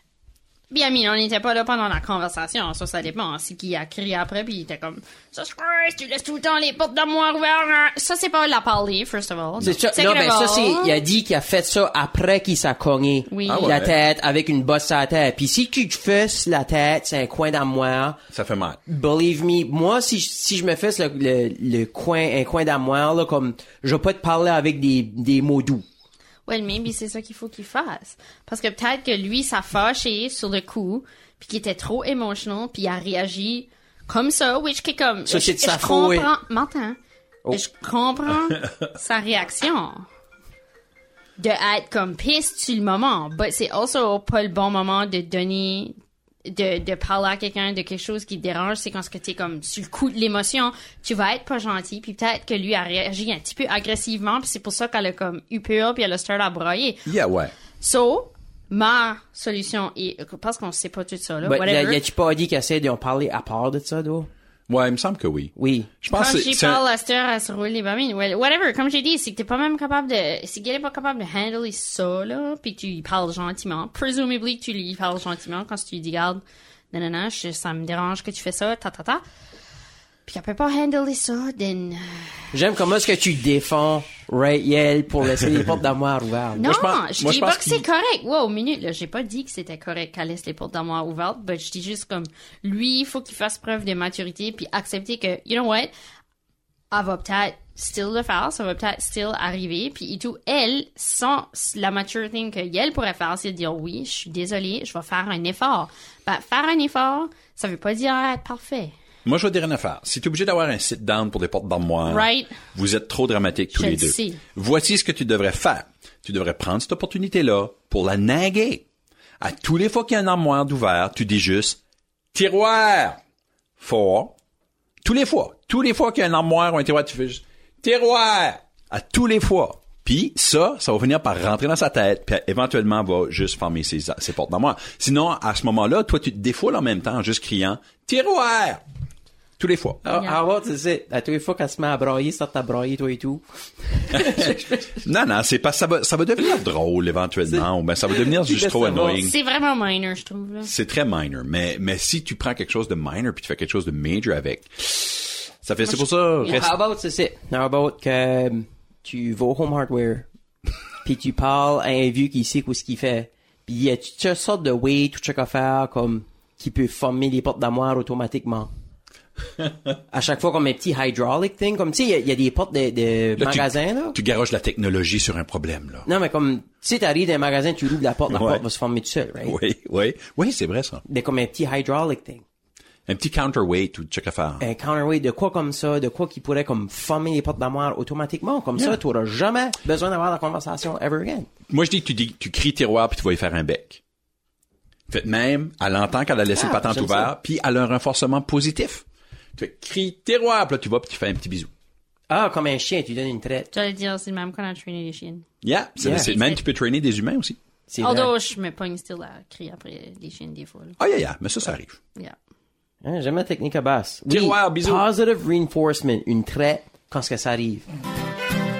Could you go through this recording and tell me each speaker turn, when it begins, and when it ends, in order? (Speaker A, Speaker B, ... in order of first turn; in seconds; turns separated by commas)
Speaker A: 0.7-11.0, Speaker B: 9.6-18.2, Speaker A: 13.3-13.8, Speaker C: 13.4-13.9, Speaker C: 18.3-18.8, Speaker B: 18.9-25.8, Speaker A: 26.5-37.0, Speaker B: 35.3-36.3, Speaker A: 37.5-40.1, Speaker A: 41.4-45.9, Speaker A: 46.5-57.1, Speaker C: 57.0-57.5, Speaker A: 57.8-62.0, Speaker B: 61.4-64.3, Speaker C: 64.7-66.8, Speaker B: 65.5-65.9, Speaker A: 66.1-79.2, Speaker A: 80.3-82.5, Speaker B: 82.5-86.6, Speaker A: 86.5-95.9, Speaker C: 86.6-87.8, Speaker A: 96.9-108.9, Speaker C: 109.2-118.8, Speaker A: 112.1-112.6, Speaker A: 113.7-114.4, Speaker C: 119.4-121.8, Speaker C: 122.3-123.2, Speaker C: 123.8-124.3, Speaker C: 125.0-138.8, Speaker C: 139.6-140.0, Speaker B: 140.0-143.4, Speaker B: 143.9-144.8, Speaker C: 144.1-149.3, Speaker B: 147.5-149.2, Speaker A: 149.2-150.7, Speaker C: 150.6-156.7, Speaker B: 156.4-160.3, Speaker B: 161.0-168.7, Speaker B: 170.1-174.2, Speaker C: 173.3-176.1, Speaker B: 176.0-179.6, Speaker C: 178.3-178.6, Speaker C: 179.4-181.0, Speaker B: 181.1-182.4, Speaker C: 183.1-184.7, Speaker B: 184.6-191.5, Speaker C: 191.7-194.0, Speaker C: 195.1-199.0, Speaker B: 196.5-197.3, Speaker C: 199.6-201.7, Speaker B: 202.3-203.7, Speaker A: 203.7-205.5, Speaker C: 205.6-207.6, Speaker B: 206.0-206.3, Speaker A: 206.1-206.6, Speaker B: 207.9-208.3, Speaker A: 208.0-211.0, Speaker C: 211.0-212.0, Speaker B: 213.0-217.8, Speaker C: 214.3-215.0